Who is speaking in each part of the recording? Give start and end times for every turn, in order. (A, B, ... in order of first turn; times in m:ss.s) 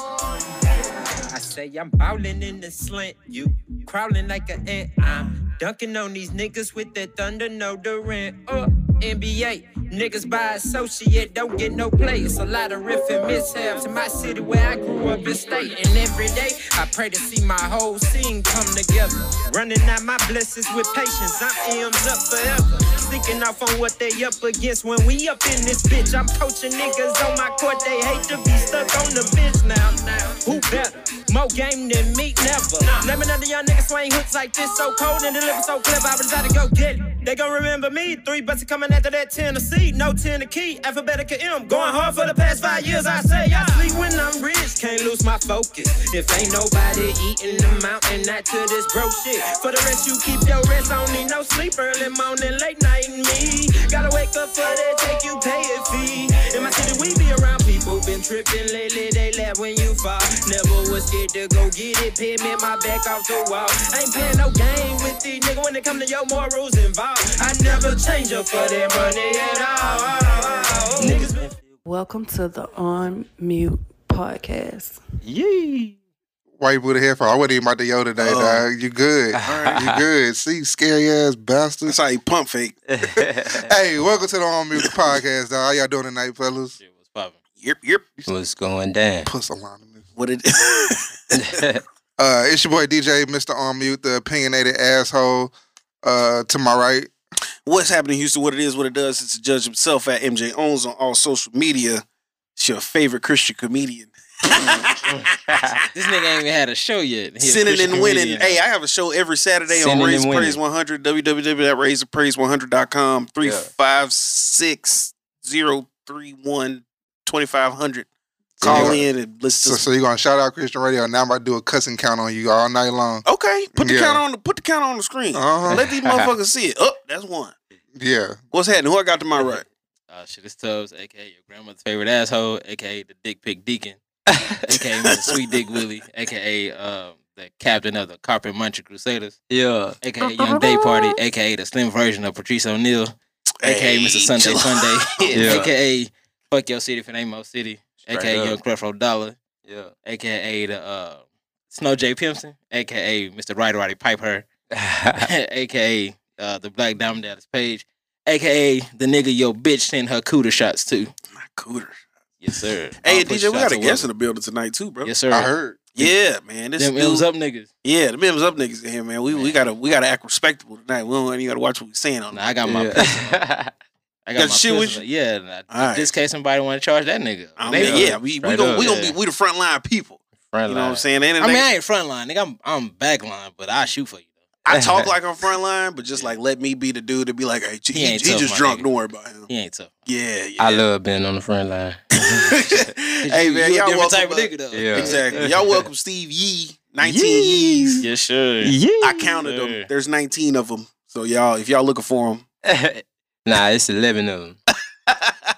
0:01.2-1:11.5 A
1:11.0-1:11.8 B
1:11.8-1:15.0 C
1:15.2-1:16.0 B
1:16.6-1:22.0 D
1:18.2-1:18.6 E
1:19.3-1:20.0 B
1:19.4-1:19.8 E
1:21.9-1:22.8 E
1:22.9-1:23.7 B
1:23.7-1:26.8 D
1:26.8-1:27.4 F
1:27.6-1:28.1 E
1:28.3-1:29.3 B
1:29.2-1:30.0 D
1:30.2-1:31.4 E
1:31.3-1:31.8 B
1:32.2-1:35.5 D
1:36.0-1:37.1 D
1:37.6-1:42.0 E
1:42.6-1:45.3 E
1:45.1-1:45.8 B
1:45.9-1:48.6 F
1:47.4-1:58.1 E
1:49.7-1:50.6 B
1:53.4-1:53.7 B
1:58.6-1:59.0 B
1:58.6-1:59.0 D
1:58.6-1:59.8 E
1:59.6-2:04.2 D
2:03.3-2:07.6 E
2:05.3-2:05.8 D
2:05.7-2:06.3 B
2:08.0-2:08.4 D
2:08.5-2:09.6 E
2:10.1-2:14.0 F
2:14.3-2:14.7 B
2:14.7-2:19.4 F
2:15.1-2:15.5 E
2:19.5-2:21.1 B
2:20.0-2:29.4 F
2:23.6-2:25.6 E
2:25.3-2:25.7 B
2:28.1-2:28.6 B
2:29.6-2:29.9 B
2:30.0-2:34.5 F
2:34.7-2:35.3 B
2:35.2-2:41.1 F
2:41.4-2:42.0 E
2:42.4-2:44.1 F
2:43.0-2:45.1 E
2:45.0-2:46.1 F
2:45.3-2:45.8 D
2:46.0-2:47.2 E
2:46.8-2:47.7 F
2:47.8-2:52.6 E
2:49.3-2:49.6 F
2:52.3-2:53.4 F
2:52.6-2:53.7 B
2:54.3-2:58.2 F
2:54.4-2:55.0 E
2:55.7-2:56.1 E
2:57.6-3:01.6 E
2:57.7-2:59.0 B
2:58.7-2:59.2 F
3:00.4-3:01.1 B
3:01.4-3:04.4 F
3:04.6-3:09.5 E
3:04.7-3:05.1 B
3:07.9-3:08.9 F
3:09.5-3:10.1 F
3:10.1-3:10.8 E
3:10.6-3:12.8 B
3:12.3-3:18.0 E
3:13.2-3:15.5 F
3:14.7-3:15.7 B
3:17.0-3:18.1 B
3:18.0-3:18.8 F
3:18.6-3:19.4 B
3:19.0-3:22.4 E
3:19.4-3:19.9 F
3:22.6-3:24.6 B